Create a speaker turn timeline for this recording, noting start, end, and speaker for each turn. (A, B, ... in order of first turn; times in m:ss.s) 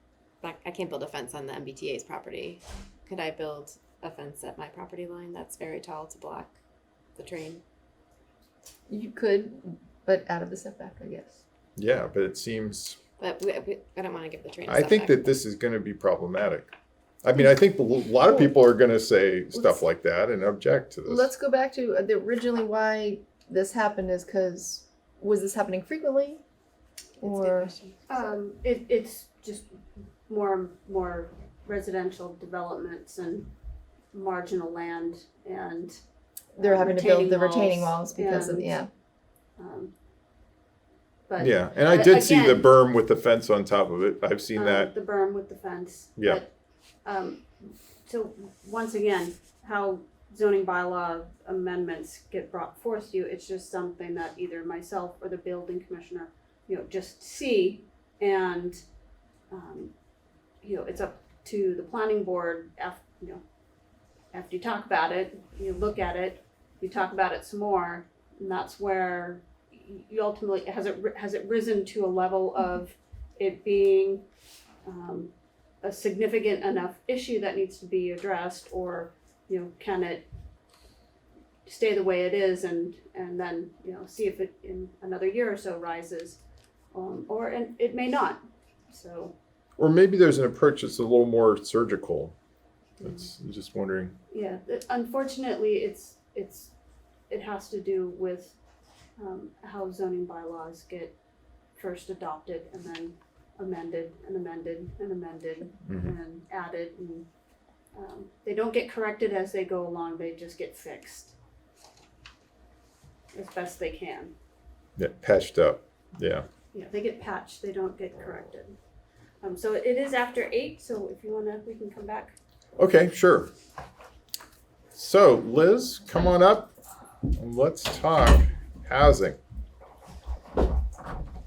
0:00.4-0:06.5 A
0:07.2-0:07.6 A
0:08.9-0:11.4 B
0:11.8-0:13.0 C
0:13.2-0:15.3 A
0:14.6-0:16.7 C
0:17.2-0:21.3 C
0:19.5-0:19.8 B
0:21.0-0:26.4 B
0:27.2-0:27.7 B
0:27.3-0:27.9 A
0:28.1-0:29.7 D
0:30.3-0:33.5 D
0:34.1-0:36.0 D
0:36.5-0:38.9 B
0:36.6-0:38.8 D
0:39.6-0:39.9 D
0:41.3-0:42.7 D
0:41.4-0:44.9 C
0:44.5-0:46.5 D
0:46.2-0:46.4 C
0:47.0-0:47.4 D
0:48.0-0:58.8 D
0:59.5-0:59.9 D
1:00.6-1:03.4 D
1:04.3-1:14.2 D
1:14.8-1:15.3 D
1:15.8-1:20.2 D
1:21.6-1:26.4 D
1:26.9-1:29.3 D
1:29.8-1:32.3 C
1:33.0-1:34.1 C
1:34.3-1:36.7 D
1:37.3-1:38.5 D
1:39.2-1:41.1 D
1:41.8-1:47.2 D
1:45.8-1:46.1 C
1:47.9-1:51.3 D
1:53.3-1:54.3 D
1:55.0-1:56.4 C
1:56.7-1:58.8 D
1:59.4-2:02.3 D
2:02.8-2:03.5 C
2:04.9-2:06.7 C
2:07.4-2:09.4 C